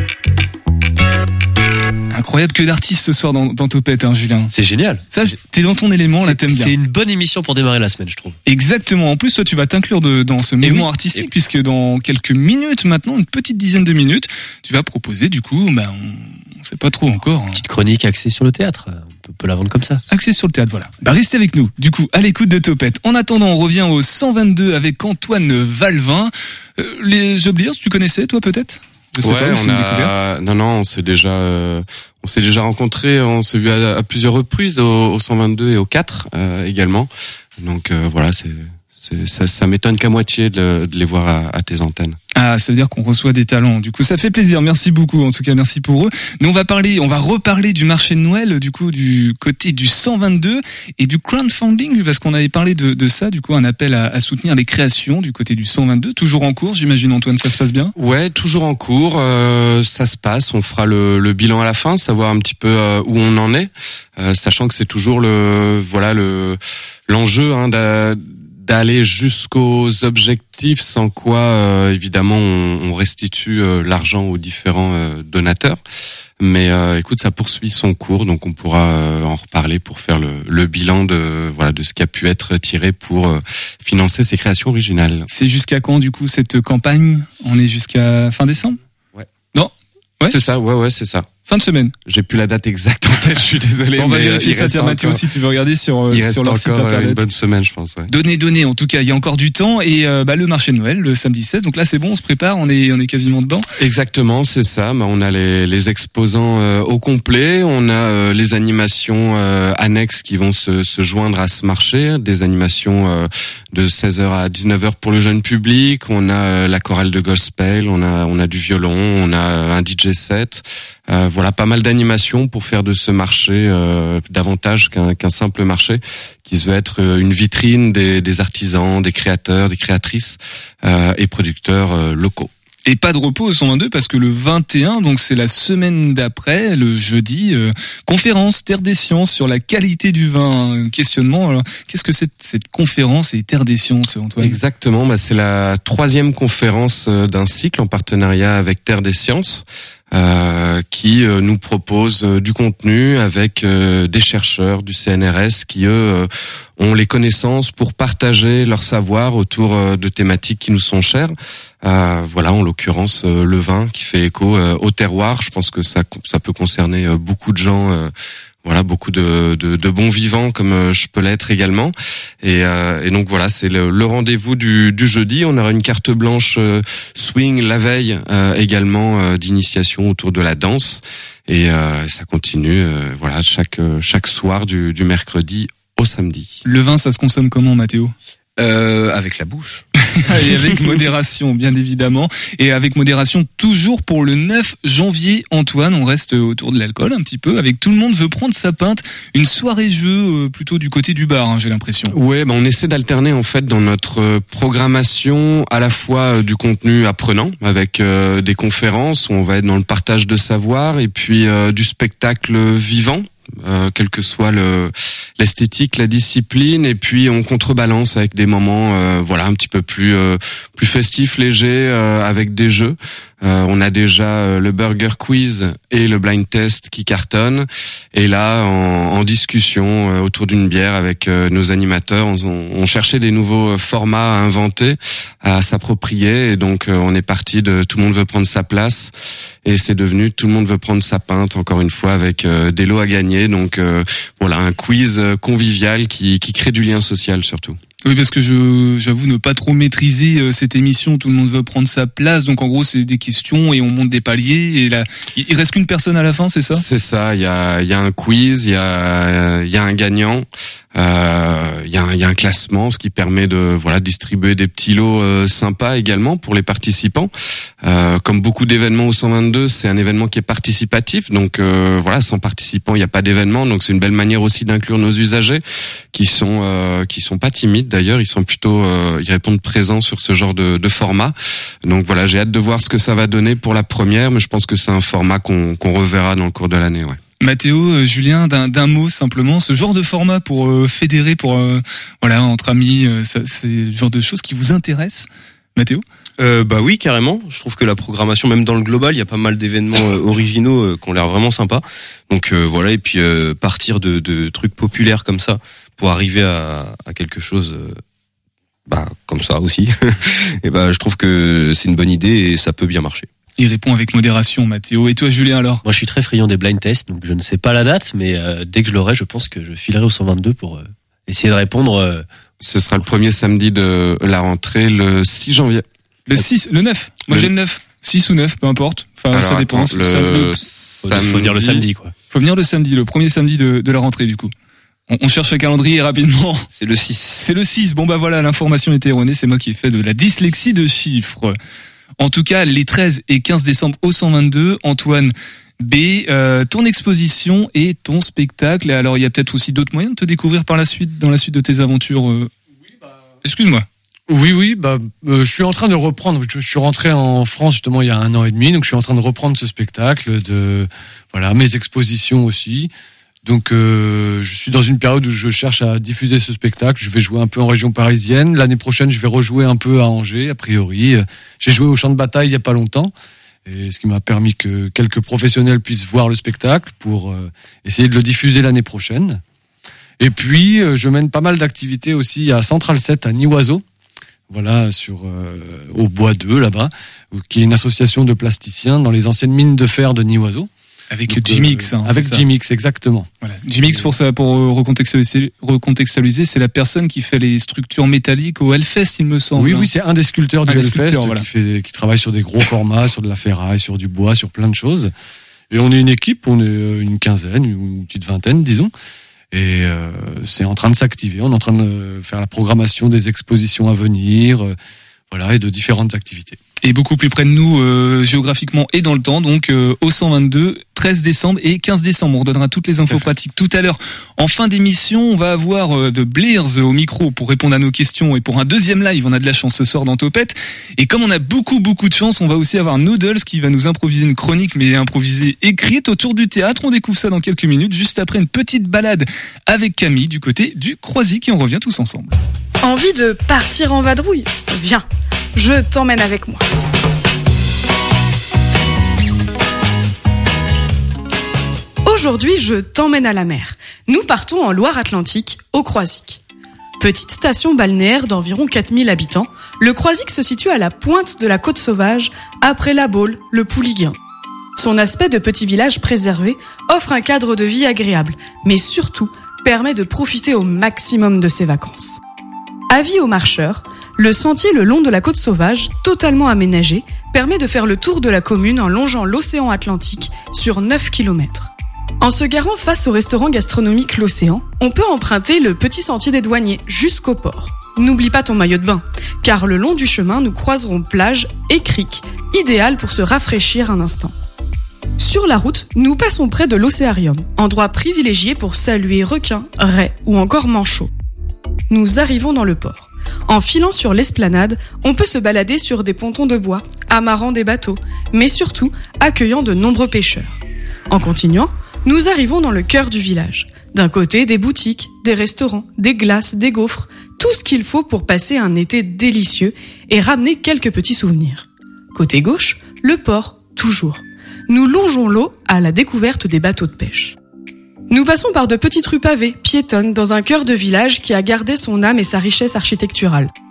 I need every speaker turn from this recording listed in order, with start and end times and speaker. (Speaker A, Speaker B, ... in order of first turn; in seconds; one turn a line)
Speaker A: 2.1-4.5
Speaker B: 4.5-5.3
Speaker A: 5.1-6.7
Speaker B: 6.1-8.4
Speaker A: 8.5-17.6
Speaker B: 10.6-11.3
Speaker B: 17.5-20.0
Speaker A: 20.1-30.2
Speaker C: 29.2-42.2
Speaker A: 42.4-57.9
Speaker C: 58.0-75.8
Speaker C: 76.4-85.3
Speaker A: 85.3-88.8
Speaker A: 89.5-90.4
Speaker C: 90.3-91.3
Speaker A: 91.5-91.9
Speaker C: 92.1-95.2
Speaker A: 94.0-97.3
Speaker C: 96.1-98.1
Speaker A: 98.1-103.7
Speaker C: 103.8-132.5
Speaker A: 132.9-144.6
Speaker C: 144.4-168.1
Speaker C: 168.6-186.6
Speaker A: 186.7-188.1
Speaker D: 188.6-189.8
Speaker A: 190.2-202.2
Speaker C: 202.1-239.1
Speaker C: 239.7-247.8
Speaker A: 248.1-256.9
Speaker C: 256.7-267.3
Speaker C: 267.8-281.4
Speaker C: 281.9-287.2
Speaker A: 287.4-296.0
Speaker D: 296.4-308.0
Speaker D: 308.9-313.3
Speaker A: 313.6-315.8
Speaker B: 315.8-322.3
Speaker C: 322.6-325.8
Speaker A: 326.3-330.6
Speaker C: 329.3-331.9
Speaker B: 331.0-332.1
Speaker A: 332.3-334.5
Speaker A: 335.1-336.7
Speaker D: 336.8-337.4
Speaker A: 337.4-341.6
Speaker A: 342.2-352.5
Speaker A: 353.4-353.9
Speaker E: 354.3-362.9
Speaker E: 363.4-373.1
Speaker E: 373.7-379.4
Speaker E: 380.2-383.8
Speaker E: 384.5-390.7
Speaker A: 391.1-392.4
Speaker E: 391.3-393.3
Speaker A: 393.4-399.9
Speaker E: 393.8-394.1
Speaker E: 399.6-405.1
Speaker A: 400.6-401.5
Speaker E: 405.7-408.9
Speaker E: 409.5-414.8
Speaker E: 415.3-416.6
Speaker A: 416.8-442.4
Speaker F: 442.8-446.6
Speaker F: 452.1-456.4
Speaker F: 457.0-464.2
Speaker F: 464.8-472.2
Speaker F: 472.9-494.3
Speaker F: 495.2-501.1
Speaker F: 501.9-510.6
Speaker F: 511.1-527.4
Speaker F: 528.1-533.5